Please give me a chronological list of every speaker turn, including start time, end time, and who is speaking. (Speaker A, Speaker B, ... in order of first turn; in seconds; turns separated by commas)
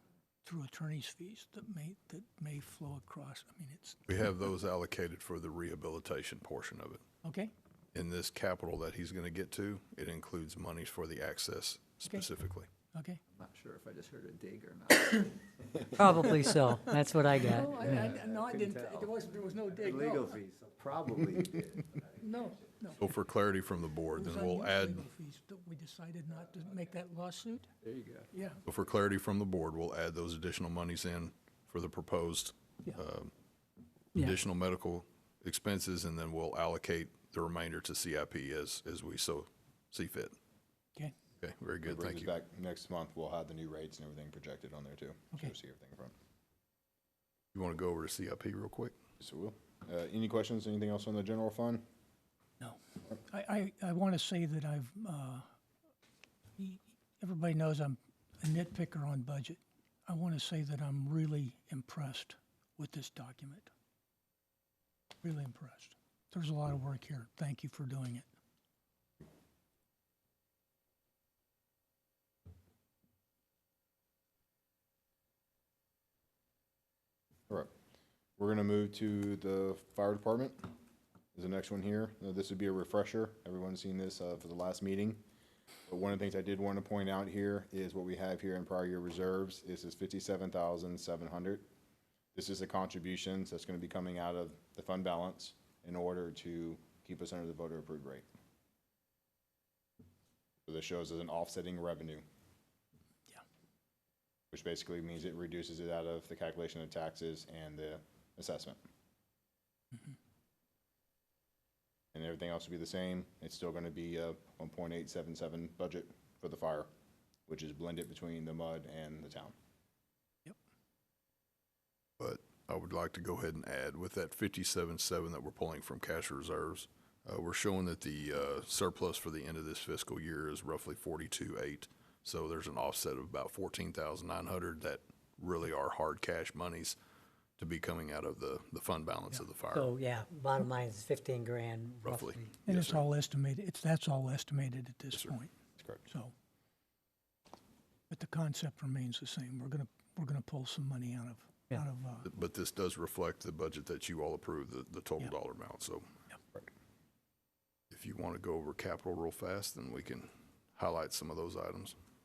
Speaker A: 0.4-4.0, Speaker B: 4.1-7.0, Speaker A: 7.2-7.5, Speaker B: 7.9-12.7, Speaker A: 12.9-13.2, Speaker C: 13.3-16.9, Speaker D: 15.9-18.1, Speaker A: 17.4-20.4, Speaker C: 17.6-22.2, Speaker A: 22.2-23.0, Speaker B: 23.0-25.1, Speaker A: 24.1-27.7, Speaker C: 27.8-28.3, Speaker A: 28.3-28.6, Speaker B: 28.7-33.3, Speaker B: 34.1-40.4, Speaker B: 41.4-42.3, Speaker E: 41.9-46.1, Speaker B: 47.5-48.9, Speaker E: 49.2-51.8, Speaker A: 52.6-55.5, Speaker A: 56.6-63.7, Speaker A: 65.2-68.3, Speaker E: 78.4-80.7, Speaker E: 81.3-85.2, Speaker E: 85.9-91.7, Speaker E: 92.3-98.2, Speaker E: 100.7-102.2, Speaker E: 104.5-108.8, Speaker E: 112.1-116.9, Speaker E: 117.5-119.5, Speaker B: 122.2-137.0, Speaker B: 137.6-139.9, Speaker D: 139.7-142.5, Speaker B: 142.0-143.0, Speaker A: 142.7-145.5, Speaker E: 145.8-146.0, Speaker A: 146.1-146.3, Speaker A: 148.1-152.3, Speaker B: 152.2-156.1, Speaker B: 157.9-162.0